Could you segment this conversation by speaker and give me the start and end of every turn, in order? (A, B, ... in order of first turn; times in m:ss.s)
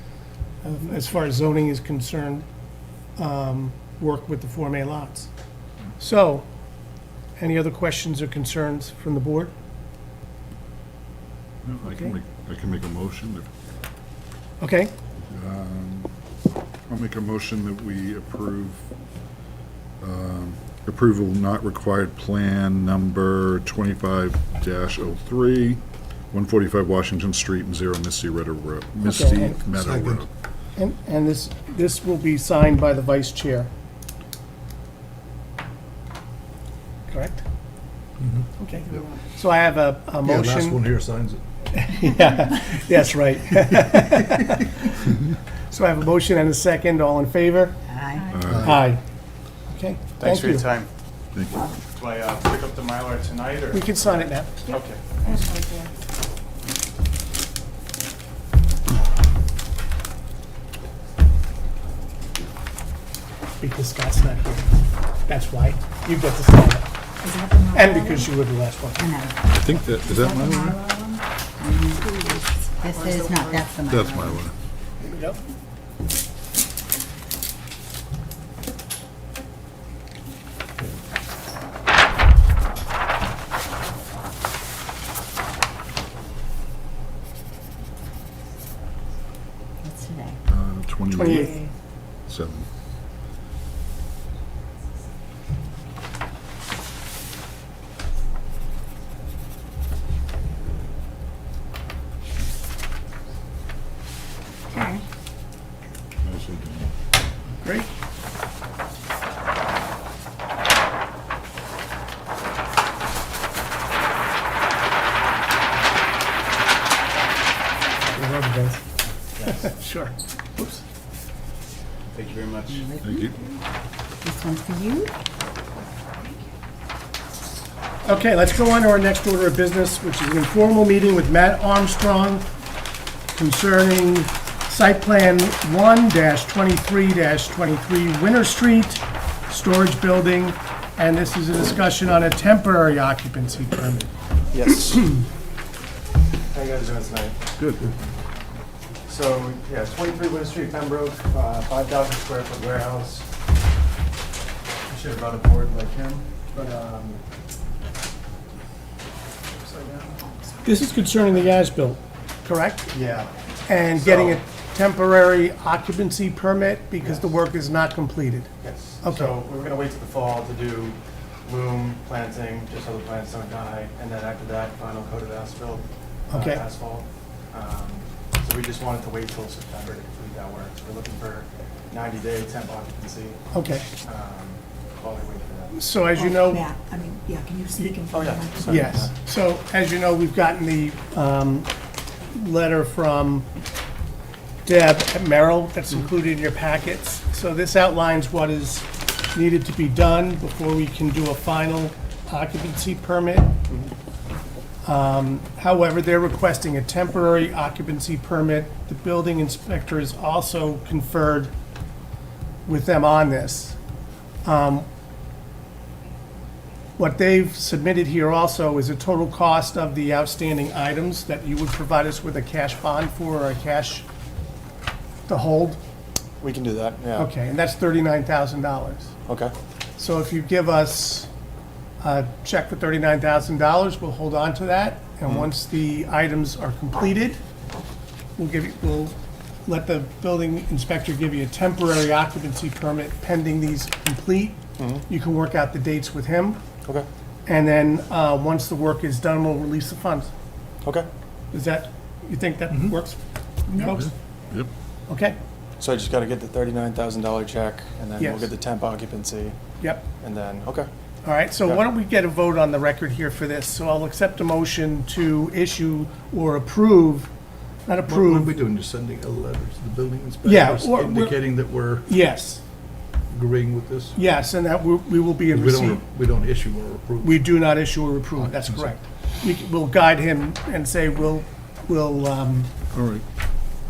0:00.6-0:02.4 A
0:03.2-0:05.3 A
0:06.0-0:06.5 A
0:07.4-0:09.5 A
0:11.6-0:13.5 B
0:14.6-0:14.9 A
0:15.2-0:16.1 B
0:16.9-0:18.9 B
0:20.0-0:30.3 B
0:29.0-0:29.6 A
0:29.8-0:30.2 C
0:30.8-0:33.7 A
0:37.1-0:37.4 A
0:38.2-0:38.5 C
0:38.6-0:40.8 A
0:38.8-0:39.0 D
0:40.2-0:41.4 C
0:41.7-0:45.0 A
0:45.7-0:47.8 A
0:47.9-0:48.3 E
0:48.2-0:48.5 D
0:48.3-0:48.8 B
0:48.6-0:49.0 A
0:49.7-0:50.6 A
0:50.2-0:50.9 F
0:51.4-0:51.7 B
0:51.9-0:54.0 F
0:53.7-0:54.5 A
0:54.7-0:55.3 F
0:54.7-0:55.9 D
1:03.6-1:06.9 A
1:07.2-1:08.3 D
1:07.7-1:09.1 A
1:09.0-1:10.8 E
1:09.5-1:10.8 B
1:10.9-1:11.2 D
1:11.6-1:14.4 E
1:13.9-1:14.5 B
1:29.8-1:30.4 E
1:30.5-1:31.6 B
1:31.1-1:31.7 A
1:32.3-1:32.7 B
1:44.7-1:45.0 E
1:46.2-1:46.9 B
1:47.6-1:47.9 A
1:58.2-1:58.8 A
1:59.4-1:59.7 F
1:59.5-2:00.8 A
2:02.1-2:02.8 F
2:02.7-2:03.4 E
2:03.0-2:03.3 B
2:04.2-2:05.1 E
2:08.0-2:12.5 A
2:13.3-2:24.1 A
2:24.5-2:25.2 F
2:26.5-2:27.4 F
2:27.6-2:27.9 C
2:29.1-2:33.3 F
2:34.9-2:37.2 F
2:39.6-2:40.2 F
2:40.6-2:42.9 A
2:42.9-2:43.3 F
2:43.7-2:48.5 A
2:44.0-2:44.4 F
2:48.6-3:05.8 F
2:49.0-2:49.4 A
2:56.3-2:56.6 A
3:03.5-3:03.9 A
3:05.8-3:06.6 A
3:06.1-3:09.1 D
3:08.1-3:09.1 F
3:08.7-3:11.7 A
3:12.3-3:13.5 A
3:14.6-3:23.6 A
3:24.8-3:31.5 A
3:32.7-3:33.8 A
3:34.4-3:34.9 A
3:37.0-3:44.0 A
3:45.3-3:45.8 A
3:46.4-3:47.3 F
3:47.2-3:49.1 A
3:49.3-3:49.5 F
3:50.0-3:51.3 A
3:52.0-3:57.4 A
3:58.4-3:59.2 A
3:59.7-4:06.6 A
4:04.8-4:05.0 F
4:07.5-4:10.3 A
4:10.8-4:11.1 F
4:11.5-4:14.1 A
4:13.8-4:14.1 C
4:15.1-4:15.4 A
4:15.8-4:19.6 F
4:18.2-4:18.5 A
4:20.2-4:20.9 F
4:21.2-4:27.3 A
4:27.9-4:28.5 A
4:28.1-4:32.1 C
4:30.4-4:31.4 A
4:32.0-4:32.6 A
4:33.3-4:34.2 C
4:34.2-4:36.0 A
4:35.5-4:37.5 C
4:37.2-4:42.7 A
4:38.4-4:39.0 C
4:42.9-4:43.2 B